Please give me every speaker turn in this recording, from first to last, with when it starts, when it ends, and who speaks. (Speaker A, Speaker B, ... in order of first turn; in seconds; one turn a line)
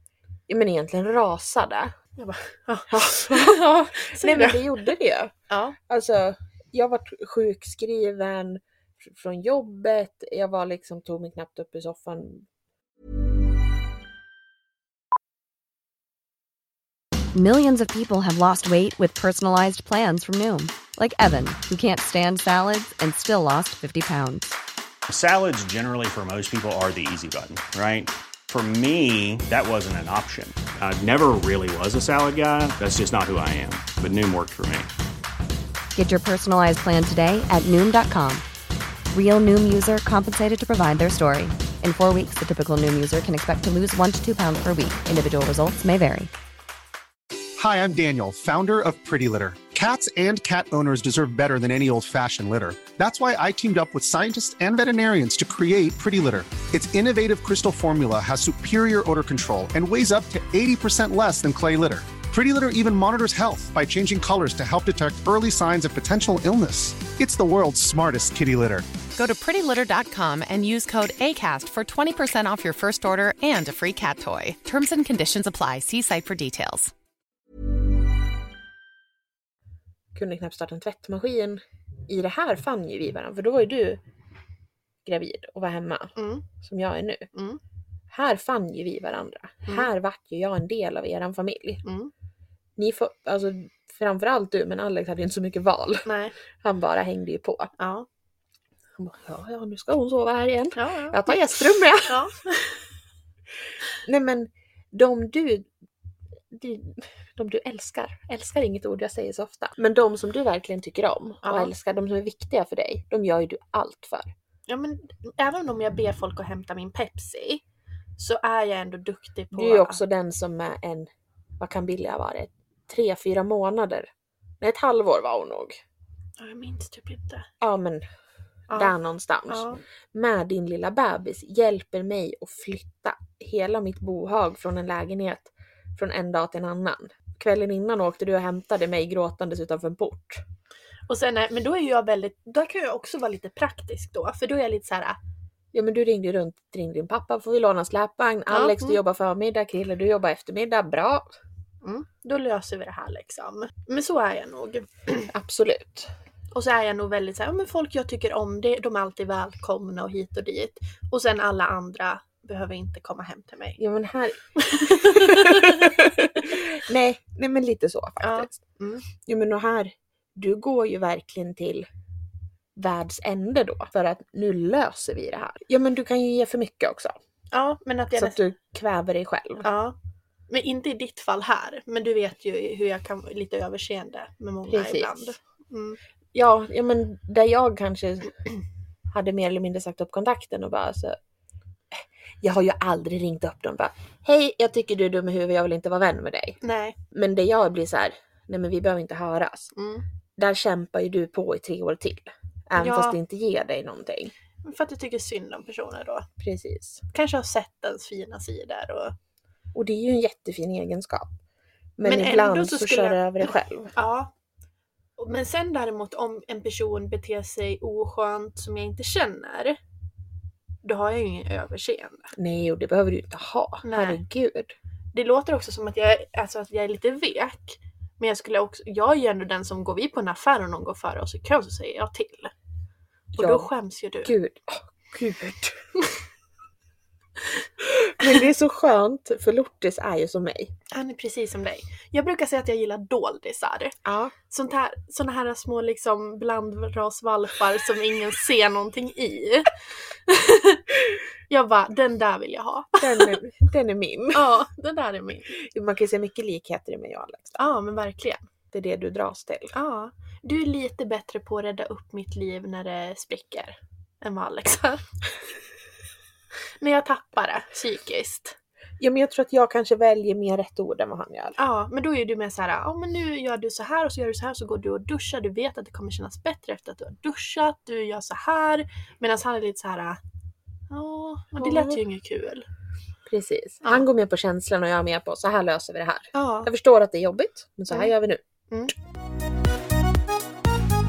Speaker A: 0.5-1.9
Speaker B: 2.2-4.9
Speaker A: 2.9-12.5
Speaker B: 5.5-5.8
Speaker C: 17.3-24.6
Speaker D: 25.1-34.9
Speaker C: 36.0-38.4
Speaker C: 39.1-46.3
Speaker E: 47.6-68.8
Speaker F: 69.2-76.9
Speaker A: 80.1-84.0
Speaker A: 85.0-87.3
Speaker B: 86.2-86.5
Speaker B: 87.3-87.6
Speaker A: 88.1-91.8
Speaker B: 91.8-92.1
Speaker A: 92.8-96.1
Speaker B: 96.0-96.3
Speaker A: 96.6-97.7
Speaker B: 97.8-98.1
Speaker A: 99.0-102.3
Speaker B: 100.8-101.4
Speaker B: 102.0-102.8
Speaker A: 104.0-105.7
Speaker A: 106.5-114.3
Speaker B: 111.4-111.7
Speaker B: 114.7-117.6
Speaker B: 118.2-120.0
Speaker A: 119.5-124.1
Speaker A: 124.6-125.8
Speaker B: 126.4-127.5
Speaker A: 127.6-128.0
Speaker B: 128.7-128.9
Speaker A: 128.7-140.4
Speaker B: 129.5-129.8
Speaker B: 141.1-145.2
Speaker A: 145.7-151.3
Speaker B: 148.5-149.0
Speaker B: 151.8-155.2
Speaker A: 155.3-156.1
Speaker B: 156.5-163.8
Speaker A: 163.8-168.6
Speaker B: 164.6-166.6
Speaker B: 168.2-169.1
Speaker A: 169.2-171.9
Speaker A: 172.8-177.2
Speaker B: 177.5-178.4
Speaker A: 178.1-179.7
Speaker B: 179.6-179.9
Speaker B: 180.5-186.0
Speaker A: 184.7-185.3
Speaker A: 186.3-188.4
Speaker A: 189.1-191.2
Speaker A: 191.9-196.6
Speaker B: 196.6-197.0
Speaker A: 197.1-199.7
Speaker B: 199.8-200.0
Speaker A: 200.3-204.3
Speaker B: 202.8-203.2
Speaker B: 204.6-206.3
Speaker A: 206.4-207.0
Speaker B: 207.1-209.1
Speaker A: 209.7-211.3
Speaker A: 212.0-213.9
Speaker B: 212.0-214.3
Speaker B: 215.2-219.8
Speaker B: 220.8-222.3
Speaker A: 222.3-224.7
Speaker B: 223.8-224.2
Speaker B: 225.1-232.5
Speaker B: 233.3-234.3
Speaker A: 233.4-233.7
Speaker A: 234.2-235.8
Speaker A: 237.8-240.7
Speaker B: 240.9-243.9
Speaker A: 244.0-244.3
Speaker B: 244.5-249.8
Speaker B: 250.3-250.8
Speaker B: 251.5-253.4
Speaker A: 253.0-254.5
Speaker B: 254.3-255.5
Speaker A: 255.5-257.6
Speaker B: 257.6-258.4
Speaker A: 258.7-259.7
Speaker B: 259.7-265.1
Speaker B: 266.8-268.6
Speaker A: 269.0-271.6
Speaker B: 271.6-280.2
Speaker B: 280.9-282.7
Speaker A: 281.6-282.0
Speaker A: 283.2-288.4
Speaker B: 286.3-286.7